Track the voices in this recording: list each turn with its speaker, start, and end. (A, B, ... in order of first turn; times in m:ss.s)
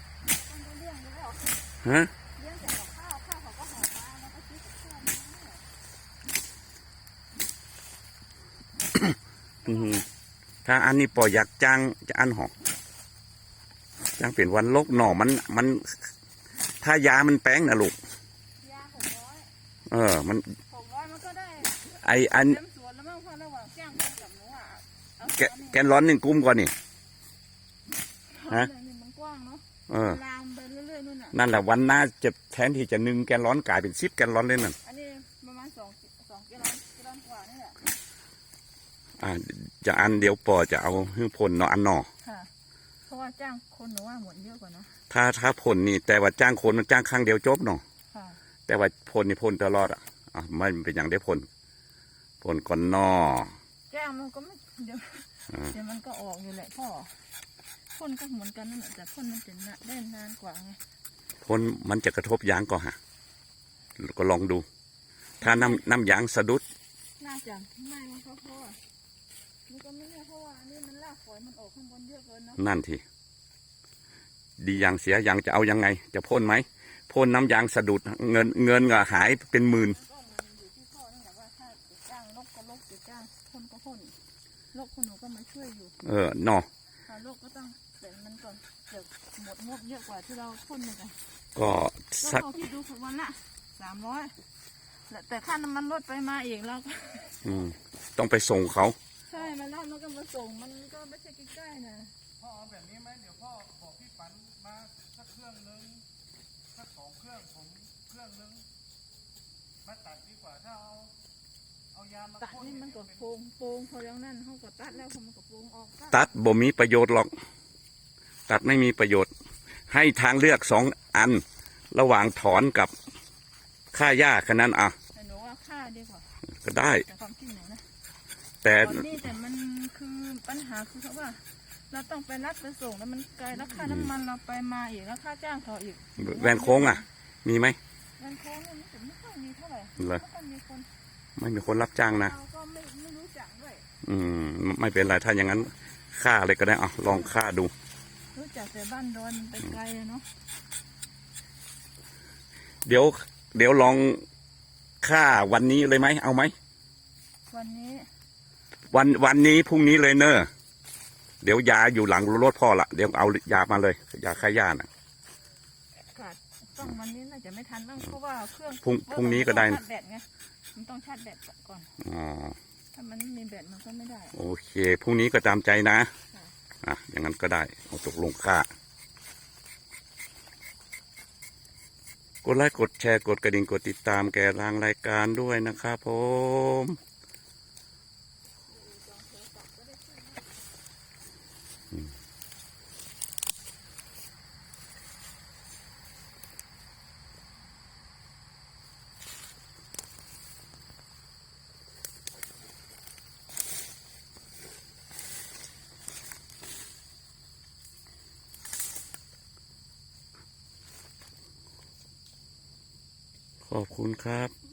0:00.2-0:01.6 A
0:01.8-0:02.1 B
0:02.3-0:05.6 A
0:08.9-0:10.0 B
0:09.6-0:10.0 A
0:10.6-0:12.5 B
0:14.2-0:16.1 B
0:16.8-0:18.0 B
0:18.6-0:19.5 A
0:19.9-0:20.5 B
0:20.7-0:25.8 A
0:22.0-0:22.6 B
0:25.4-0:26.7 B
0:28.3-0:31.4 A
0:29.9-0:30.2 B
0:31.3-0:34.8 B
0:34.8-0:37.8 A
0:39.2-0:42.1 B
0:42.2-0:42.5 A
0:43.0-0:44.9 A
0:45.1-0:47.8 B
0:48.1-0:48.4 A
0:48.7-0:51.5 B
0:52.4-0:53.5 B
0:53.9-0:57.2 A
0:57.9-1:00.8 A
1:01.4-1:03.0 B
1:04.0-1:04.6 B
1:05.4-1:06.6 B
1:05.4-1:05.8 A
1:07.2-1:08.8 A
1:09.7-1:12.6 A
1:12.6-1:13.0 B
1:14.6-1:20.0 B
1:19.8-1:24.1 A
1:24.7-1:25.9 A
1:26.0-1:26.7 B
1:27.0-1:31.2 A
1:31.6-1:32.5 B
1:32.2-1:34.3 A
1:35.1-1:37.4 A
1:37.4-1:39.0 B
1:39.3-1:42.1 A
1:42.4-1:46.0 C
1:46.7-1:48.6 C
1:49.8-1:51.1 C
1:51.9-1:53.3 C
1:52.4-1:56.3 A
1:56.1-1:57.3 B
1:58.5-1:59.3 B
1:59.9-2:02.9 B
2:03.9-2:05.0 B
2:05.1-2:06.3 A
2:06.6-2:07.0 B
2:07.0-2:07.8 A
2:08.6-2:09.2 B
2:08.8-2:17.1 A
2:13.7-2:14.1 B
2:16.2-2:17.8 B
2:18.2-2:20.9 A
2:20.0-2:20.2 B
2:21.4-2:22.3 B
2:22.1-2:23.9 A
2:24.0-2:27.7 B
2:28.3-2:30.2 A
2:32.8-2:34.2 B
2:35.0-2:36.5 B
2:37.5-2:38.1 A
2:38.9-2:40.5 B
2:41.4-2:44.9 B
2:46.1-2:51.9 A
2:48.8-2:49.8 B
2:52.0-2:52.6 B
2:52.9-2:54.4 A
2:54.3-2:56.1 B
2:56.8-2:58.7 B
3:02.4-3:07.0 B
3:08.7-3:10.5 A
3:33.6-3:34.5 B